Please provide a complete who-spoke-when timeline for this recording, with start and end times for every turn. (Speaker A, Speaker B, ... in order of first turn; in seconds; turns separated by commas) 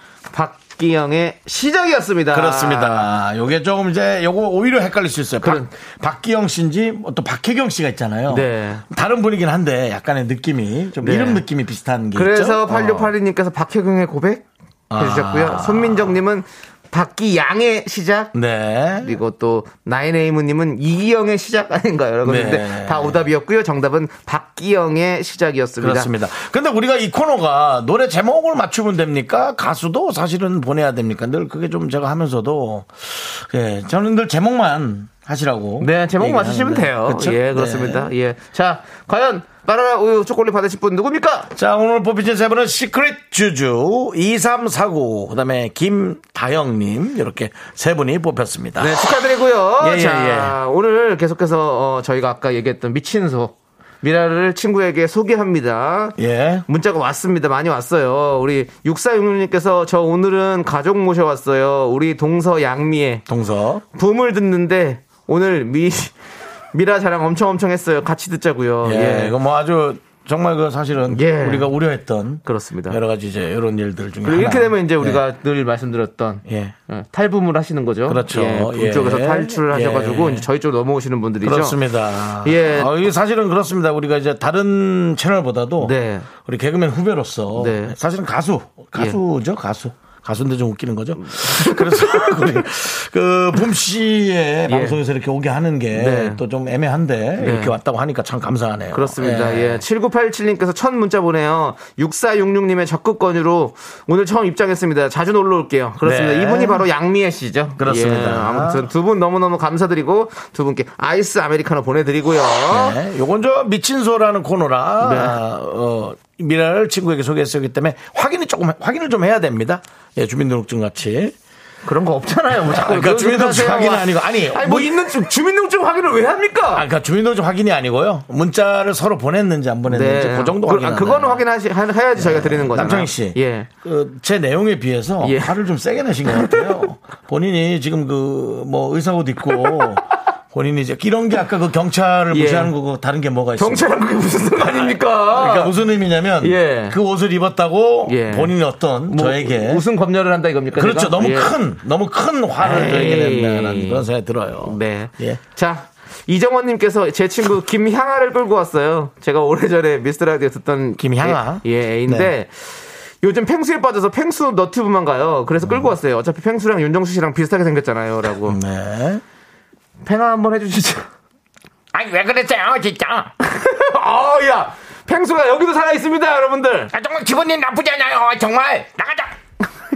Speaker A: 0.3-3.1, Speaker B: 2.3-13.1, Speaker A: 5.4-5.7, Speaker A: 8.3-8.8, Speaker A: 11.0-11.4, Speaker A: 12.1-18.3, Speaker B: 14.9-16.2, Speaker B: 18.3-19.2, Speaker A: 19.0-26.1, Speaker B: 22.2-23.2, Speaker B: 25.8-38.1, Speaker A: 35.8-41.5, Speaker B: 41.5-49.1, Speaker A: 48.8-63.2, Speaker B: 49.8-50.6, Speaker B: 56.2-56.6, Speaker B: 63.3-63.8, Speaker A: 63.9-66.1, Speaker A: 66.7-69.3, Speaker B: 68.8-75.2, Speaker A: 71.1-71.7, Speaker A: 72.4-73.0, Speaker A: 74.2-81.8, Speaker B: 76.5-76.8, Speaker B: 78.1-80.5, Speaker B: 81.4-99.8, Speaker A: 82.4-82.9, Speaker A: 85.8-86.3, Speaker A: 87.5-87.9, Speaker A: 91.2-92.6, Speaker A: 94.7-95.0, Speaker A: 95.9-96.4, Speaker A: 97.4-97.7, Speaker A: 98.9-113.0, Speaker B: 106.0-106.9, Speaker B: 107.8-108.9, Speaker B: 112.7-121.3, Speaker A: 115.0-115.4, Speaker A: 121.8-126.9, Speaker B: 122.7-125.0, Speaker B: 126.7-131.4, Speaker A: 129.9-133.7, Speaker B: 132.2-143.9, Speaker A: 135.2-135.5, Speaker A: 136.3-136.7, Speaker A: 139.5-139.9, Speaker A: 142.3-142.7, Speaker A: 143.6-145.7, Speaker B: 144.6-149.8, Speaker A: 146.4-147.0, Speaker A: 148.1-148.5, Speaker A: 149.1-151.5, Speaker B: 150.7-155.4, Speaker A: 152.6-154.0, Speaker A: 154.6-168.6, Speaker B: 161.0-162.3, Speaker B: 168.4-169.2, Speaker A: 170.0-171.1, Speaker B: 171.9-173.3, Speaker A: 173.4-176.9, Speaker B: 176.9-179.3